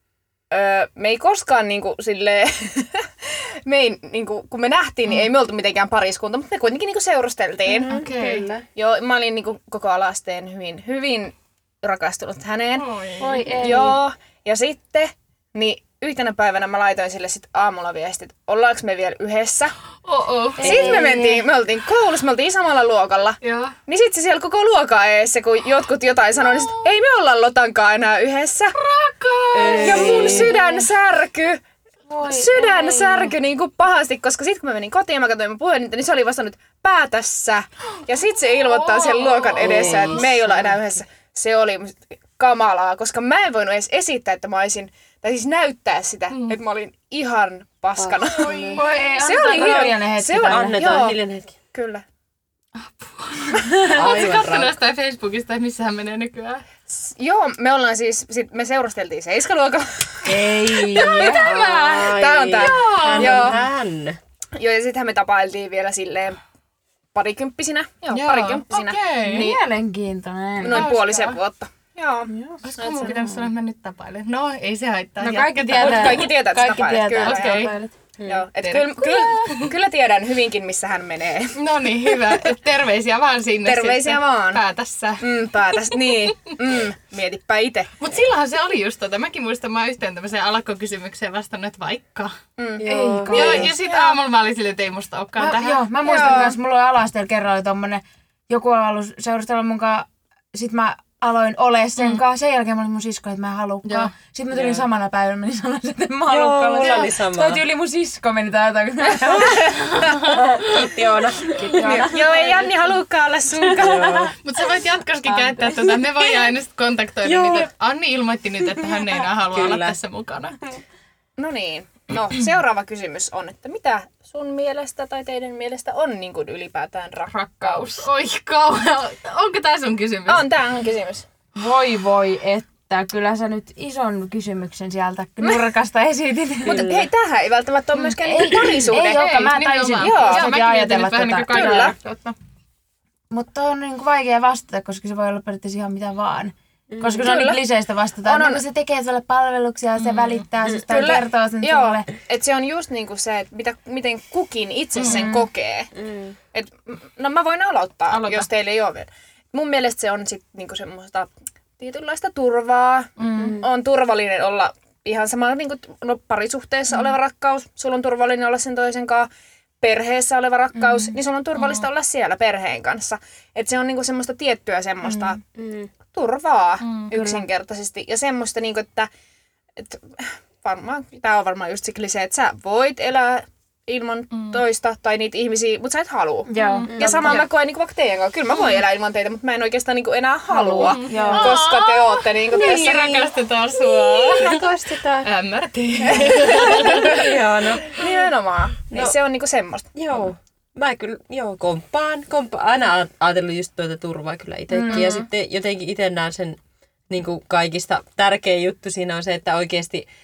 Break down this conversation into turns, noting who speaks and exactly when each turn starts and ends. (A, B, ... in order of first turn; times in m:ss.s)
0:00.5-0:12.9 A
0:07.7-0:08.6 B
0:07.9-0:08.5 C
0:12.8-0:13.5 C
0:13.2-0:14.0 D
0:13.6-0:19.8 A
0:20.0-0:20.7 C
0:20.6-0:21.4 D
0:20.6-0:28.8 A
0:20.6-0:21.1 B
0:23.4-0:23.8 C
0:28.8-0:30.3 C
0:29.5-0:30.5 B
0:29.7-0:31.6 A
0:29.9-0:30.6 D
0:32.1-0:33.3 D
0:32.2-0:48.5 A
0:38.8-0:39.6 C
0:39.6-0:40.8 B
0:39.8-0:40.2 D
0:46.3-0:46.6 C
0:48.0-0:48.8 B
0:48.4-0:49.1 C
0:48.7-0:50.8 D
0:49.2-0:51.2 A
0:50.4-0:51.5 B
0:51.7-0:52.0 A
0:52.8-0:56.6 C
0:53.8-0:54.8 B
0:56.9-1:03.6 A
1:00.3-1:01.5 D
1:00.7-1:04.2 B
1:02.6-1:03.6 C
1:04.6-1:06.4 A
1:07.1-1:09.6 A
1:08.1-1:09.5 C
1:09.3-1:10.9 D
1:10.6-1:12.3 A
1:10.7-1:11.4 C
1:12.3-1:13.5 D
1:12.6-1:16.3 C
1:15.2-1:17.9 D
1:15.7-1:17.7 A
1:17.2-1:17.7 C
1:18.2-1:18.4 B
1:18.2-1:21.6 A
1:18.6-1:19.7 C
1:21.6-1:26.4 C
1:23.6-1:24.6 A
1:25.2-1:27.9 A
1:28.0-1:32.4 C
1:32.6-1:34.0 A
1:32.8-1:33.7 B
1:32.8-1:34.0 D
1:33.3-1:35.8 C
1:35.4-1:49.9 D
1:36.0-1:36.6 A
1:43.8-1:44.1 C
1:44.5-1:44.9 B
1:46.3-1:47.6 B
1:49.2-1:52.6 B
1:49.6-1:50.5 C
1:51.5-1:52.7 D
1:51.8-1:54.3 A
1:53.5-1:54.4 B
1:54.4-2:00.6 C
1:55.3-1:55.6 D
1:57.2-1:57.7 B
1:59.5-2:00.0 B
2:01.4-2:08.0 A
2:07.3-2:10.5 C
2:10.3-2:11.3 A
2:11.6-2:16.9 D
2:16.6-2:17.1 B
2:16.7-2:19.3 A
2:18.2-2:22.3 D
2:19.0-2:22.0 C
2:20.0-2:20.5 A
2:21.5-2:22.0 A
2:23.3-2:32.0 D
2:26.9-2:27.3 B
2:27.2-2:27.6 A
2:28.2-2:28.6 A
2:30.0-2:30.4 C
2:30.9-2:35.9 A
2:35.0-2:35.2 C
2:35.0-2:35.5 D
2:36.0-2:36.4 B
2:36.5-2:49.3 A
2:38.1-2:38.5 C
2:43.2-2:43.6 C
2:43.4-2:43.6 B
2:49.8-2:55.4 A
2:51.6-2:51.8 C
2:55.5-2:55.9 B
2:56.1-2:59.1 A
2:56.8-2:57.1 C
2:57.1-2:57.4 D
2:59.8-3:13.2 A
3:04.3-3:04.6 C
3:06.5-3:07.4 D
3:06.6-3:06.9 C
3:06.9-3:07.4 B
3:10.5-3:11.4 B
3:10.8-3:11.6 D
3:10.8-3:14.6 C
3:12.5-3:13.3 B
3:14.1-3:15.3 B
3:15.2-3:17.3 C
3:16.1-3:17.3 A
3:16.2-3:18.1 B
3:17.8-3:19.9 A
3:20.0-3:30.1 B
3:24.9-3:25.2 A